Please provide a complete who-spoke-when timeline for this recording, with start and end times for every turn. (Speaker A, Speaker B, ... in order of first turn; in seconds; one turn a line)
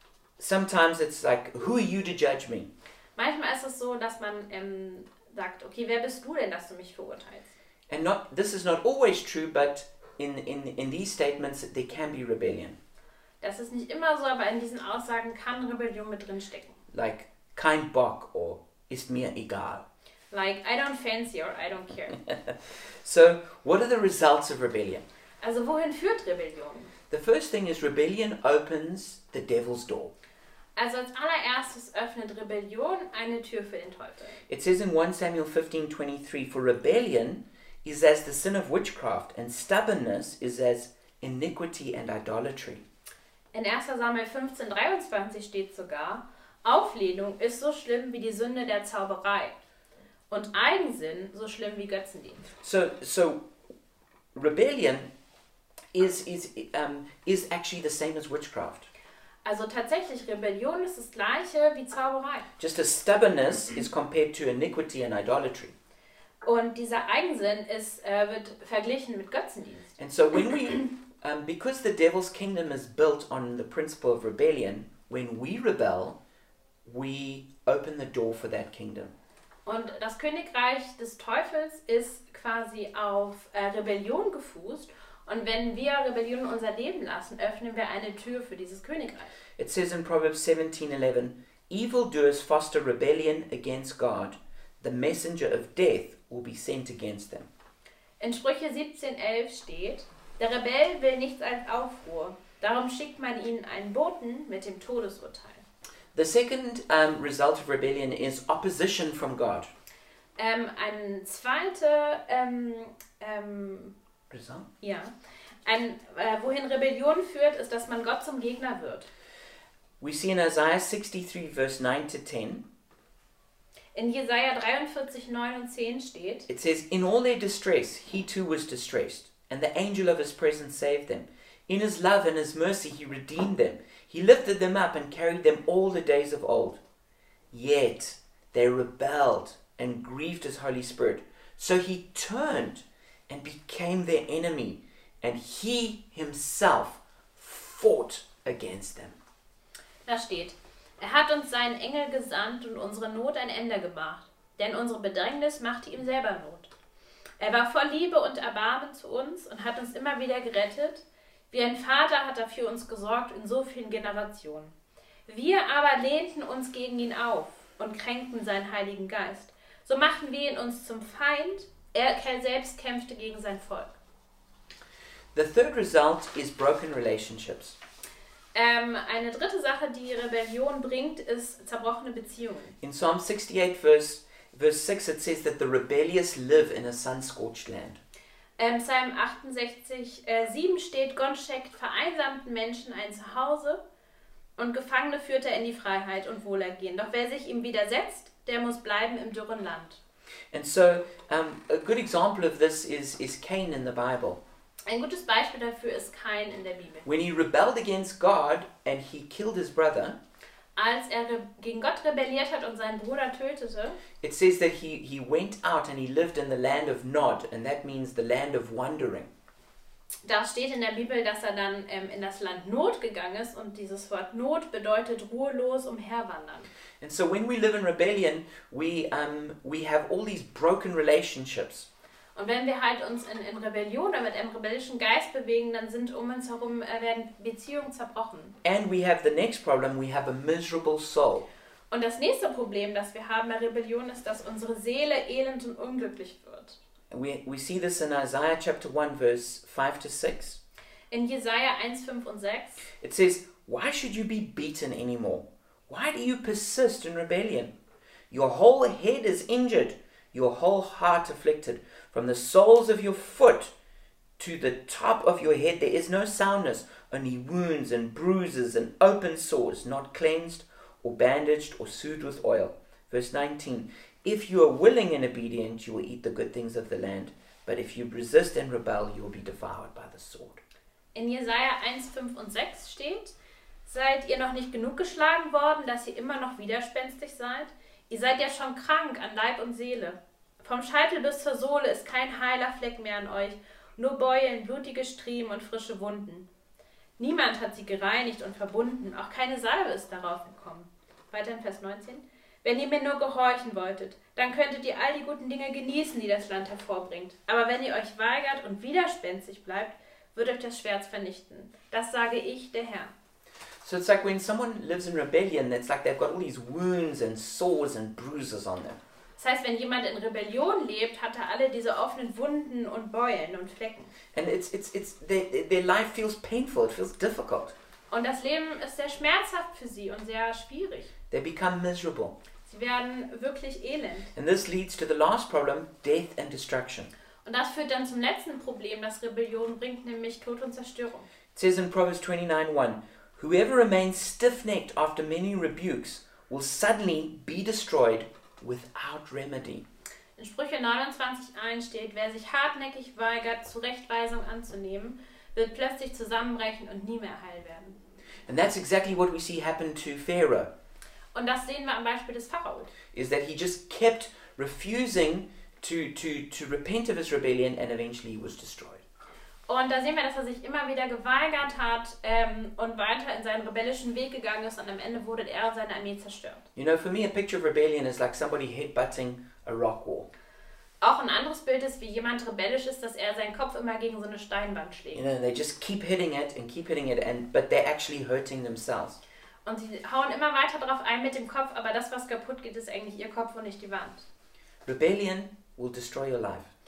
Speaker A: 0.4-2.7
Speaker B: 3.1-7.5
Speaker A: 7.9-12.8
Speaker B: 13.4-16.8
Speaker A: 16.9-19.8
Speaker B: 20.3-22.2
Speaker A: 23.0-25.0
Speaker B: 25.4-26.9
Speaker A: 27.1-30.1
Speaker B: 30.8-34.4
Speaker A: 34.5-42.8
Speaker B: 43.5-49.5
Speaker B: 50.3-52.5
Speaker A: 52.6-53.4
Speaker A: 54.3-55.1
Speaker A: 55.9-58.9
Speaker B: 59.4-62.5
Speaker A: 62.6-65.7
Speaker B: 66.4-69.9
Speaker A: 70.0-76.2
Speaker A: 76.8-79.1
Speaker B: 79.7-89.3
Speaker A: 89.6-97.5
Speaker B: 98.2-105.6
Speaker A: 106.1-109.7
Speaker B: 110.4-113.9
Speaker A: 114.3-114.7
Speaker B: 114.8-115.1
Speaker B: 115.6-119.1
Speaker A: 120.0-122.6
Speaker B: 123.9-126.5
Speaker A: 126.5-136.8
Speaker A: 137.5-149.2
Speaker B: 150.1-156.7
Speaker B: 157.4-164.7
Speaker B: 165.3-173.9
Speaker A: 175.3-177.8
Speaker B: 178.5-182.8
Speaker A: 182.8-188.0
Speaker B: 188.6-193.8
Speaker B: 194.6-200.0
Speaker A: 200.5-204.4
Speaker B: 204.8-207.1
Speaker A: 207.0-210.2
Speaker B: 210.8-214.0
Speaker A: 214.2-219.3
Speaker B: 220.2-226.7
Speaker A: 227.0-231.9
Speaker B: 232.3-238.6
Speaker A: 238.6-241.5
Speaker B: 241.9-246.8
Speaker A: 247.1-250.6
Speaker B: 251.1-252.8
Speaker A: 253.0-257.7
Speaker A: 258.3-263.7
Speaker A: 264.4-280.6
Speaker B: 281.1-283.3
Speaker B: 283.9-296.5
Speaker B: 297.2-313.1
Speaker A: 313.8-319.0
Speaker B: 319.4-324.1
Speaker A: 324.3-327.7
Speaker B: 328.1-331.1
Speaker A: 331.3-332.4
Speaker B: 332.7-334.3
Speaker A: 334.3-337.1
Speaker B: 337.4-341.3
Speaker A: 341.5-349.8
Speaker B: 350.4-358.0
Speaker A: 358.5-360.7
Speaker B: 361.3-362.9
Speaker A: 363.1-369.0
Speaker B: 369.7-376.6
Speaker A: 376.8-380.3
Speaker B: 381.0-385.2
Speaker A: 385.1-389.2
Speaker B: 389.6-394.3
Speaker A: 394.9-396.7